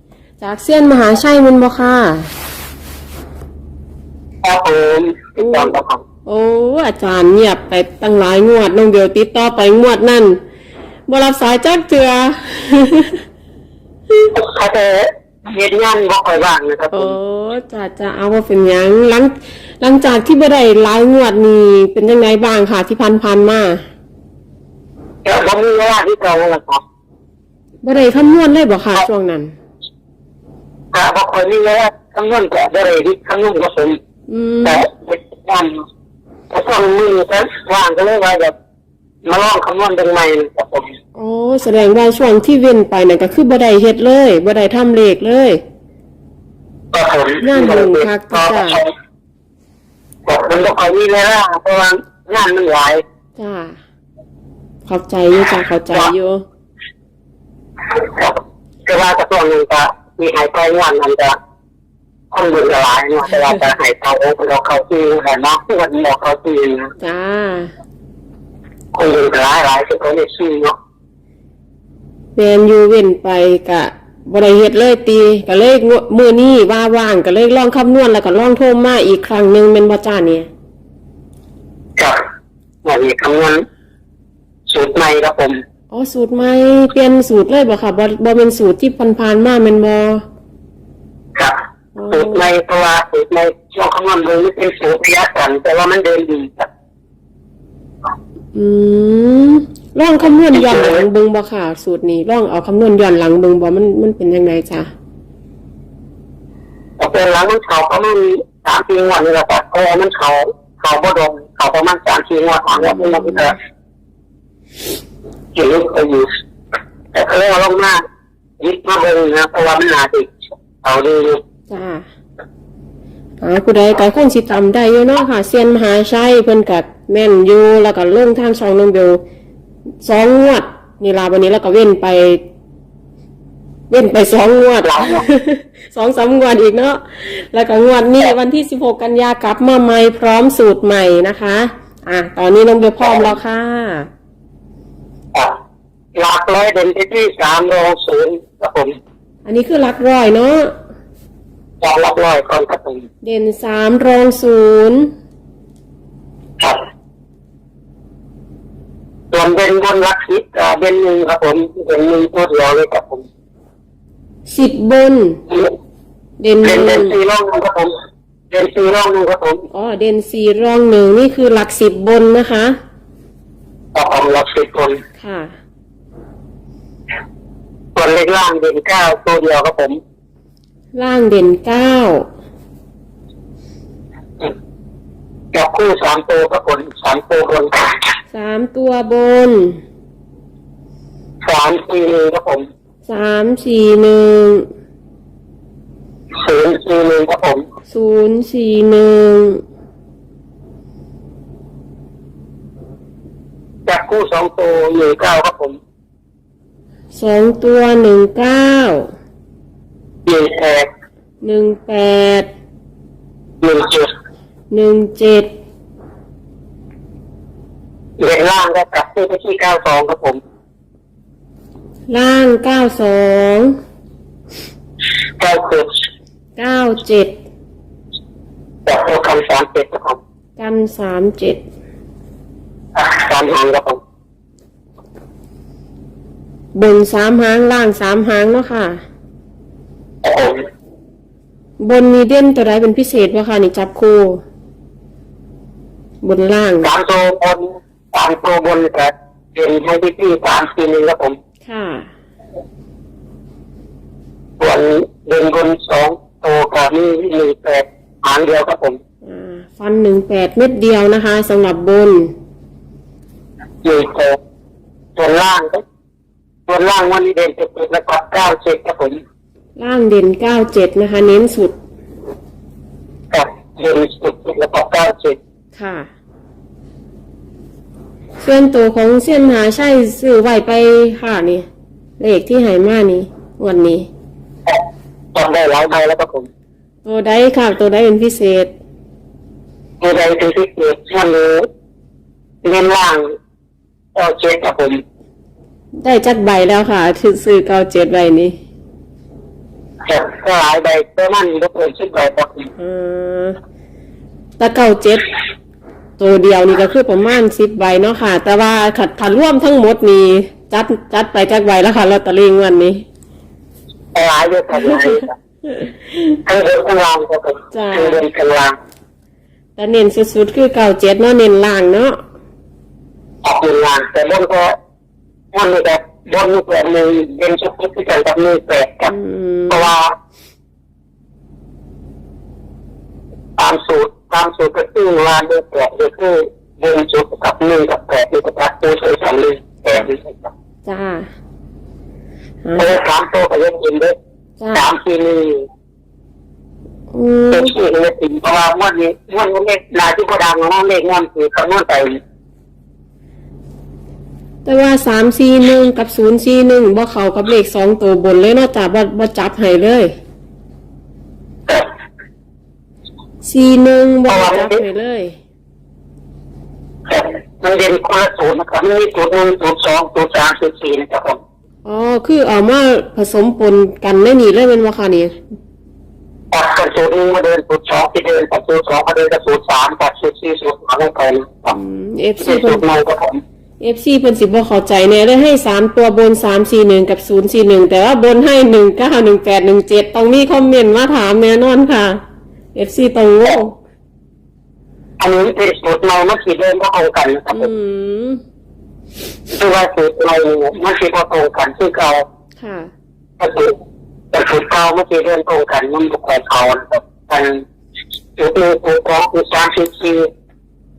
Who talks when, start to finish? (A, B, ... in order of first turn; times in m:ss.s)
0:00.4-0:02.3 A
0:04.4-0:06.0 B
0:05.4-0:05.7 A
0:06.2-0:10.4 A
0:11.1-0:13.2 A
0:14.3-0:17.2 B
0:16.9-0:23.8 A
0:25.2-0:26.8 B
0:27.8-0:29.5 A
0:30.9-0:34.0 B
0:34.3-0:34.8 A
0:34.6-0:35.8 B
0:36.5-0:38.5 B
0:39.2-0:40.9 B
0:41.2-0:45.6 A
0:46.9-0:48.9 B
0:47.4-0:48.8 A
0:50.2-0:53.0 B
0:53.4-0:53.8 A
0:54.8-0:56.4 A
0:58.0-1:01.4 B
1:02.3-1:06.9 B
1:07.0-1:07.7 A
1:08.9-1:10.8 B
1:12.3-1:20.5 A
1:22.8-1:23.6 B
1:24.7-1:25.6 B
1:25.9-1:30.2 A
1:32.0-1:32.5 A
1:32.1-1:36.7 B
1:38.5-1:44.9 A
1:40.5-1:41.0 B
1:47.0-1:53.6 B
1:52.7-1:53.5 A
1:55.5-1:56.3 B
1:57.1-1:58.0 B
1:58.6-2:01.4 B
2:01.7-2:02.0 A
2:03.4-2:09.2 A
2:10.0-2:12.4 A
2:13.9-2:24.1 A
2:14.8-2:15.2 B
2:23.0-2:23.4 B
2:26.1-2:29.0 B
2:29.4-2:30.7 A
2:31.8-2:33.0 B
2:33.2-2:35.1 A
2:39.3-2:43.2 B
2:44.5-2:45.4 A
2:46.4-2:47.2 A
2:46.6-2:47.9 B
2:48.5-2:49.7 B
2:49.7-2:52.8 A
2:53.9-2:55.0 B
2:55.2-2:55.5 A
2:57.9-3:00.0 B
3:00.9-3:02.2 A
3:05.5-3:08.0 B
3:08.3-3:09.8 A
3:11.4-3:12.7 B
3:13.1-3:14.7 A
3:16.4-3:17.6 B
3:17.9-3:19.6 A
3:23.8-3:25.8 B
3:27.1-3:29.1 A
3:30.2-3:30.9 B
3:31.4-3:32.5 A
3:33.6-3:34.1 B
3:34.7-3:35.5 A
3:38.2-3:40.4 B
3:42.1-3:43.8 A
3:45.4-3:45.9 B
3:46.6-3:47.4 A
3:48.8-3:50.2 B
3:50.6-3:51.6 A
3:52.9-3:54.0 B
3:56.7-3:59.0 A
4:00.2-4:00.6 B
4:01.8-4:04.4 A
4:06.2-4:06.9 A
4:06.8-4:11.4 B
4:11.6-4:12.1 A
4:14.6-4:19.0 B
4:19.2-4:22.3 A
4:23.8-4:24.4 B
4:25.2-4:25.8 B
4:26.7-4:29.2 B
4:29.8-4:31.7 A
4:33.3-4:35.4 B
4:35.7-4:36.1 A
4:38.4-4:41.7 A
4:42.2-4:44.1 A
4:45.3-4:46.5 B
4:47.0-4:48.7 A
4:50.0-4:51.7 B
4:52.6-4:53.3 B
4:54.1-4:55.0 B
4:56.0-4:58.6 A
5:00.0-5:02.7 B
5:02.8-5:03.6 A
5:04.6-5:05.2 A
5:06.2-5:13.0 A
5:14.1-5:15.3 B
5:16.4-5:18.8 B
5:17.7-5:18.2 A
5:19.8-5:22.2 A
5:23.4-5:24.8 B
5:25.5-5:29.1 B
5:29.1-5:29.9 A
5:29.7-5:30.1 B
5:33.6-5:40.5 B
5:40.8-5:41.3 A
5:42.6-5:43.0 A
5:42.8-5:44.1 B
5:44.6-5:44.9 A
5:44.7-5:45.6 B
5:47.1-5:47.7 A
5:47.5-5:52.2 B
5:54.6-6:00.1 A
6:03.4-6:05.4 A
6:04.3-6:04.8 B
6:07.1-6:11.4 B
6:11.8-6:15.4 A
6:16.5-6:21.8 B
6:21.7-6:22.8 A
6:22.4-6:23.4 B
6:23.8-6:32.2 A
6:32.7-6:33.8 A
6:35.2-6:37.7 B
6:37.5-6:38.4 A
6:39.5-6:42.2 B
6:42.6-6:42.9 A
6:43.4-6:43.7 B
6:44.3-6:47.6 B
6:48.4-6:50.3 B